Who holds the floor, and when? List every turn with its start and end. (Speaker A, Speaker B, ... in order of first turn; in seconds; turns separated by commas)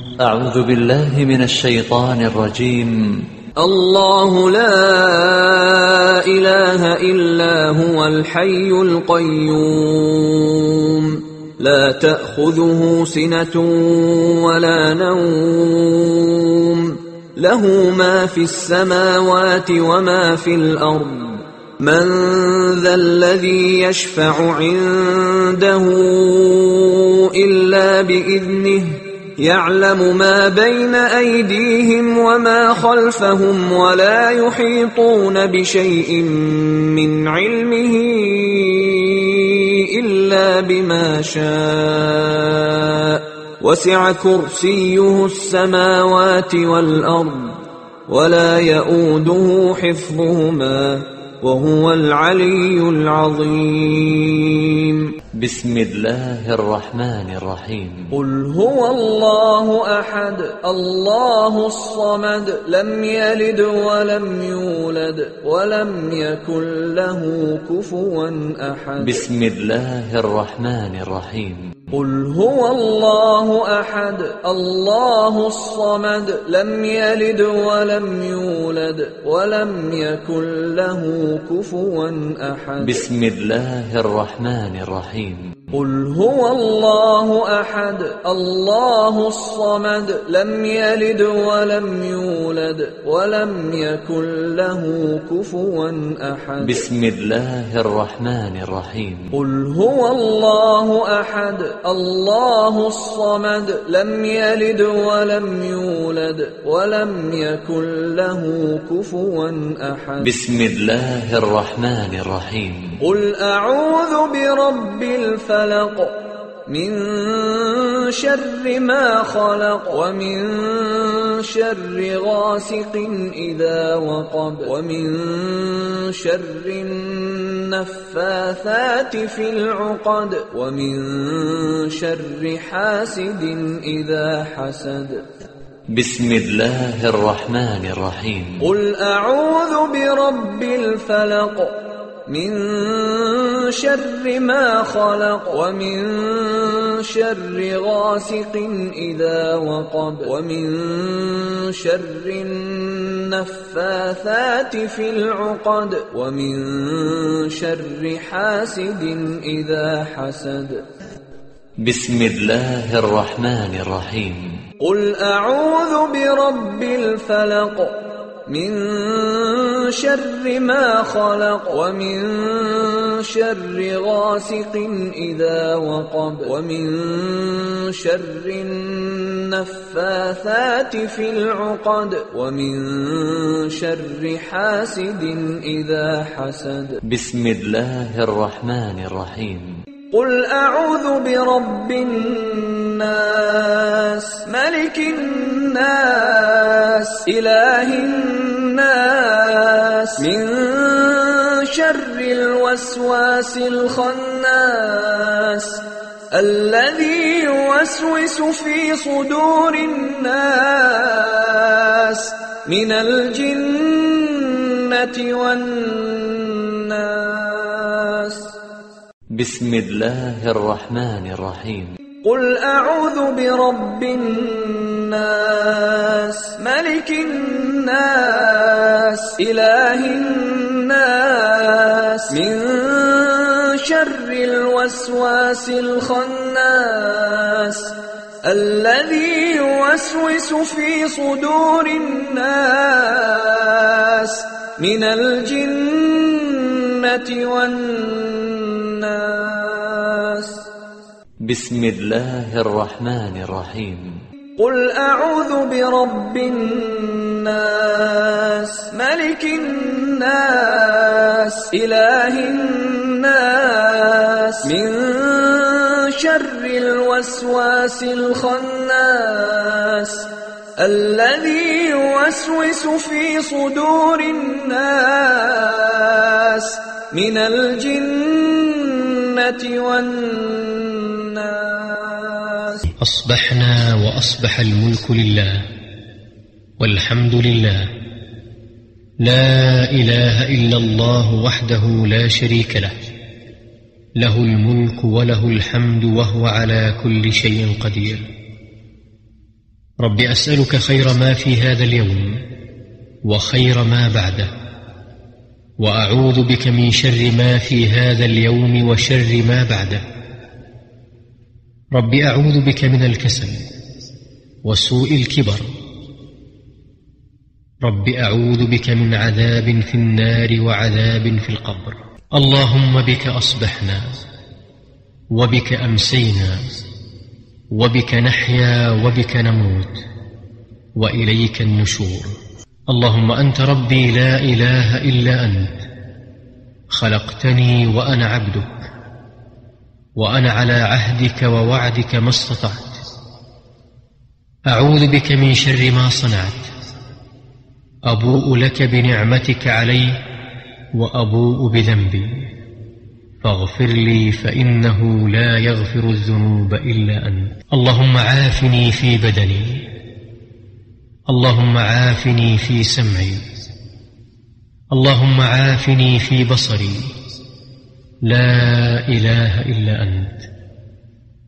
Speaker A: 0.2-3.2, Speaker B: 3.6-55.1, Speaker A: 55.3-58.1, Speaker B: 58.1-69.2, Speaker A: 69.0-71.7, Speaker B: 71.9-83.0, Speaker A: 82.8-85.6, Speaker B: 85.7-96.8, Speaker A: 96.6-99.3, Speaker B: 99.3-110.3, Speaker A: 110.2-112.9, Speaker B: 113.0-135.2, Speaker A: 135.9-138.6, Speaker B: 138.6-160.8, Speaker A: 161.8-164.5, Speaker B: 164.8-187.0, Speaker A: 187.1-189.7, Speaker B: 190.1-218.5, Speaker A: 219.3-221.9, Speaker B: 222.2-250.6, Speaker A: 251.4-254.1, Speaker B: 254.6-282.8, Speaker C: 283.0-285.6, Speaker C: 286.8-287.9, Speaker C: 289.2-292.9, Speaker C: 294.2-298.3, Speaker C: 300.0-302.4, Speaker C: 303.2-304.5, Speaker C: 305.8-310.0, Speaker C: 311.9-313.6, Speaker C: 314.6-315.7, Speaker C: 317.8-324.2, Speaker C: 325.3-326.6, Speaker C: 327.7-330.0, Speaker C: 330.9-332.3, Speaker C: 332.9-335.9, Speaker C: 336.9-338.9, Speaker C: 340.2-343.0, Speaker C: 344.7-346.7, Speaker C: 348.1-350.2, Speaker C: 350.9-352.5, Speaker C: 353.4-359.9, Speaker C: 361.3-363.4, Speaker C: 364.9-367.1, Speaker C: 368.2-370.5